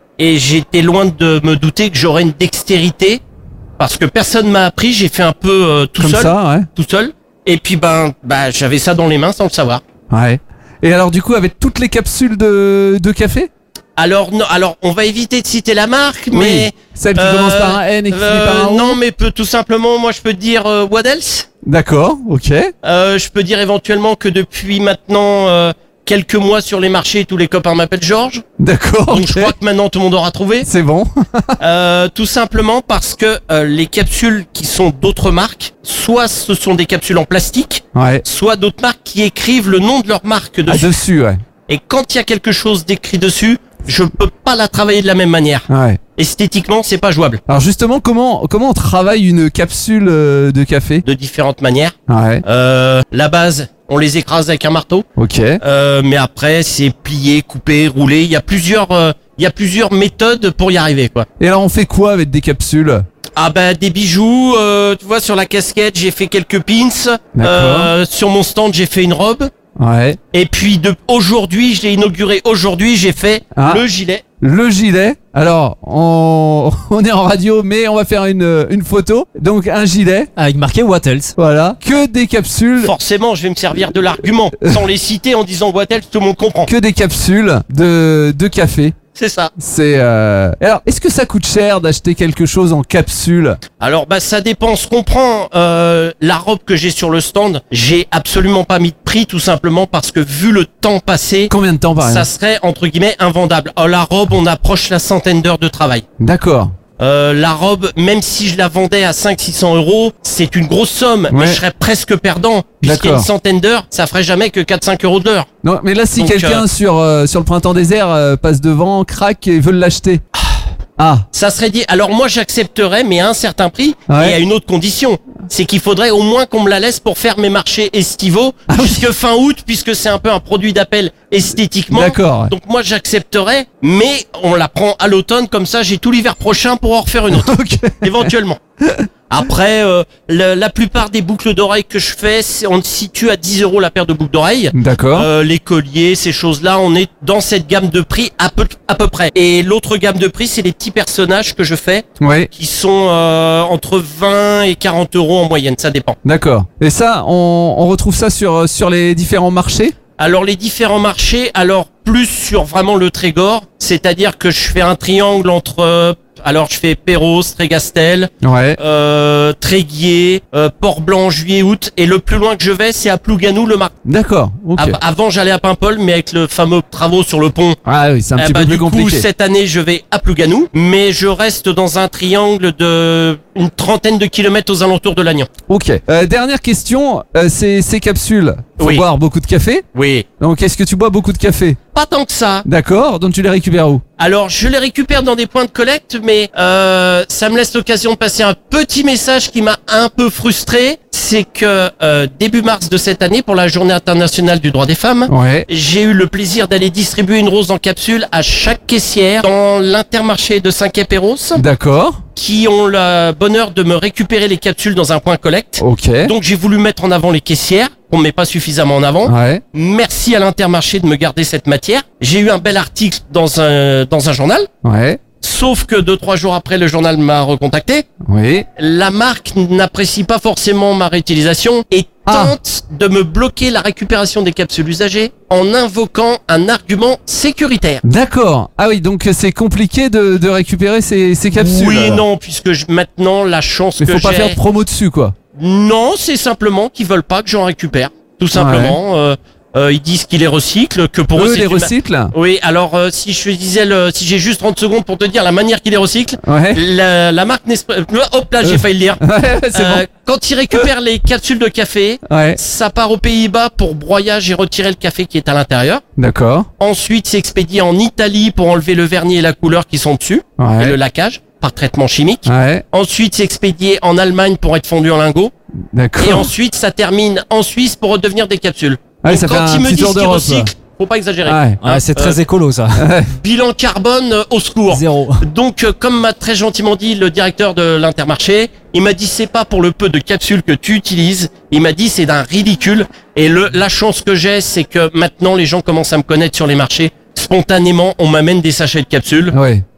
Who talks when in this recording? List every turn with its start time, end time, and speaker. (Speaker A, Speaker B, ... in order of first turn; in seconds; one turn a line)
Speaker A: 0.2-3.2
Speaker A: 3.8-9.8
Speaker B: 6.0-6.7
Speaker B: 10.1-13.5
Speaker A: 14.0-21.5
Speaker B: 16.3-19.0
Speaker B: 21.6-22.7
Speaker A: 22.8-28.4
Speaker B: 28.6-29.5
Speaker A: 29.1-30.7
Speaker B: 30.6-31.6
Speaker A: 31.6-41.0
Speaker B: 37.9-38.2
Speaker B: 40.7-41.4
Speaker A: 41.7-47.4
Speaker B: 45.7-46.0
Speaker B: 47.5-51.0
Speaker A: 51.0-55.1
Speaker B: 52.1-52.4
Speaker B: 55.2-55.6
Speaker A: 55.6-61.3
Speaker B: 61.4-63.0
Speaker A: 63.4-69.5
Speaker B: 67.4-67.9
Speaker B: 69.8-70.2
Speaker A: 70.3-74.2
Speaker B: 73.5-73.8
Speaker B: 74.4-80.3
Speaker C: 80.4-81.3
Speaker B: 81.4-82.9
Speaker A: 82.8-86.7
Speaker B: 86.7-89.0
Speaker A: 89.2-89.5
Speaker B: 89.6-93.6
Speaker A: 93.8-106.0
Speaker B: 101.5-102.3
Speaker B: 106.2-106.7
Speaker A: 107.0-115.5
Speaker B: 111.3-111.6
Speaker B: 112.8-113.3
Speaker B: 115.6-120.2
Speaker A: 116.2-116.7
Speaker B: 121.0-121.2
Speaker A: 121.3-138.6
Speaker B: 124.1-124.4
Speaker B: 128.7-129.1
Speaker B: 131.9-132.5
Speaker B: 137.3-138.3
Speaker A: 139.3-156.2
Speaker B: 144.7-145.3
Speaker B: 152.2-152.5
Speaker B: 156.2-159.9
Speaker A: 160.2-173.9
Speaker B: 168.4-168.8
Speaker B: 174.1-175.0
Speaker A: 174.8-177.8
Speaker B: 177.9-179.3
Speaker A: 178.4-185.5
Speaker B: 185.7-189.8
Speaker A: 188.8-189.1
Speaker A: 189.9-190.3
Speaker B: 190.4-191.8
Speaker A: 191.9-192.7
Speaker B: 192.7-194.0
Speaker A: 194.2-211.6
Speaker B: 205.3-205.7
Speaker B: 211.6-212.2
Speaker A: 212.4-224.7
Speaker B: 215.8-216.3
Speaker B: 219.2-219.6
Speaker B: 224.8-225.2
Speaker A: 225.4-228.1
Speaker B: 228.3-228.7
Speaker A: 228.8-238.0
Speaker B: 232.3-232.5
Speaker B: 238.0-242.2
Speaker A: 241.5-244.6
Speaker B: 244.0-245.3
Speaker A: 245.6-259.2
Speaker B: 248.5-249.0
Speaker B: 251.3-252.3
Speaker B: 256.4-256.8
Speaker B: 258.6-260.1
Speaker A: 259.7-266.0
Speaker B: 262.3-262.6
Speaker B: 266.2-266.7
Speaker A: 266.8-275.5
Speaker B: 270.6-271.0
Speaker B: 272.5-272.8
Speaker B: 275.9-276.5
Speaker A: 276.2-282.4
Speaker B: 279.2-280.7
Speaker B: 281.5-281.8
Speaker C: 281.8-283.1
Speaker B: 283.0-283.3
Speaker A: 283.3-299.6
Speaker C: 284.9-285.4
Speaker B: 299.5-299.8